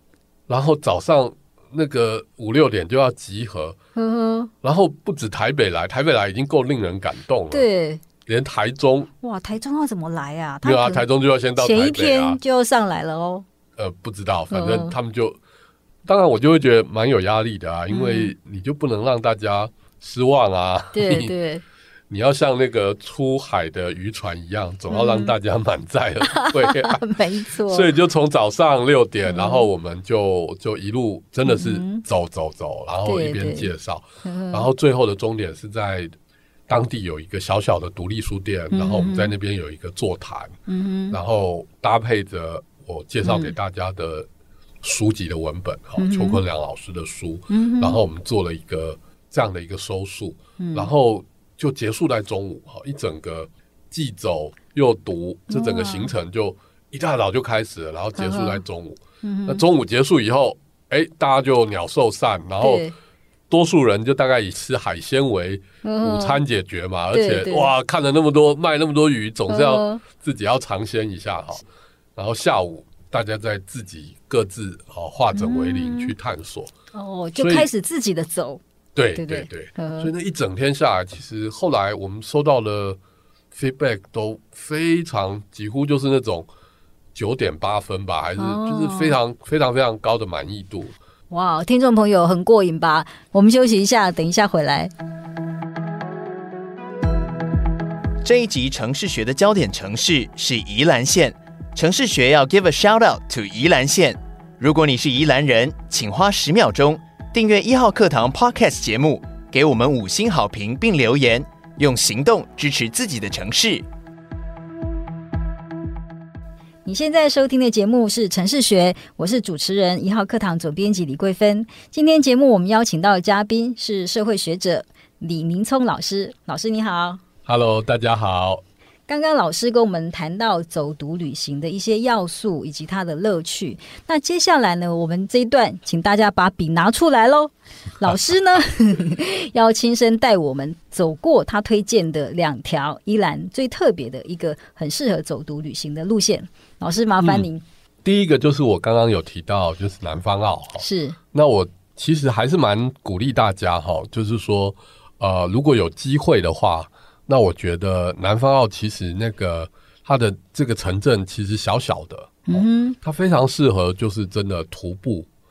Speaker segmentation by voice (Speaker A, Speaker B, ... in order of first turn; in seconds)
Speaker A: 0.5-3.8, 4.6-7.7, 8.2-9.1, 10.6-12.4, 13.8-15.4, 16.1-21.3, 22.1-27.0, 27.7-36.1, 36.7-40.5, 41.1-44.3, 44.8-62.9, 63.5-71.6, 72.2-76.7, 77.3-77.7, 78.9-83.0, 83.5-86.5, 87.1-90.9, 127.5-128.6, 147.2-147.5, 148.0-165.3
Speaker B: 4.0-4.5, 7.5-8.0, 9.2-11.1, 11.6-13.4, 14.5-14.9, 17.9-18.3, 20.9-21.6, 24.9-25.3, 26.2-27.9, 29.2-29.7, 31.4-32.0, 33.0-33.7, 34.2-34.7, 38.7-39.3, 40.7-41.2, 43.2-43.5, 46.0-46.4, 47.5-48.0, 50.6-50.9, 55.5-56.1, 58.2-58.6, 59.2-59.6, 62.6-62.9, 65.8-66.4, 67.1-67.7, 69.5-70.0, 75.3-76.1, 76.9-78.6, 79.2-80.1, 88.4-89.2, 91.3-94.9, 116.8-127.2, 129.1-147.6, 150.8-151.2, 162.5-163.0
Speaker C: 98.2-113.8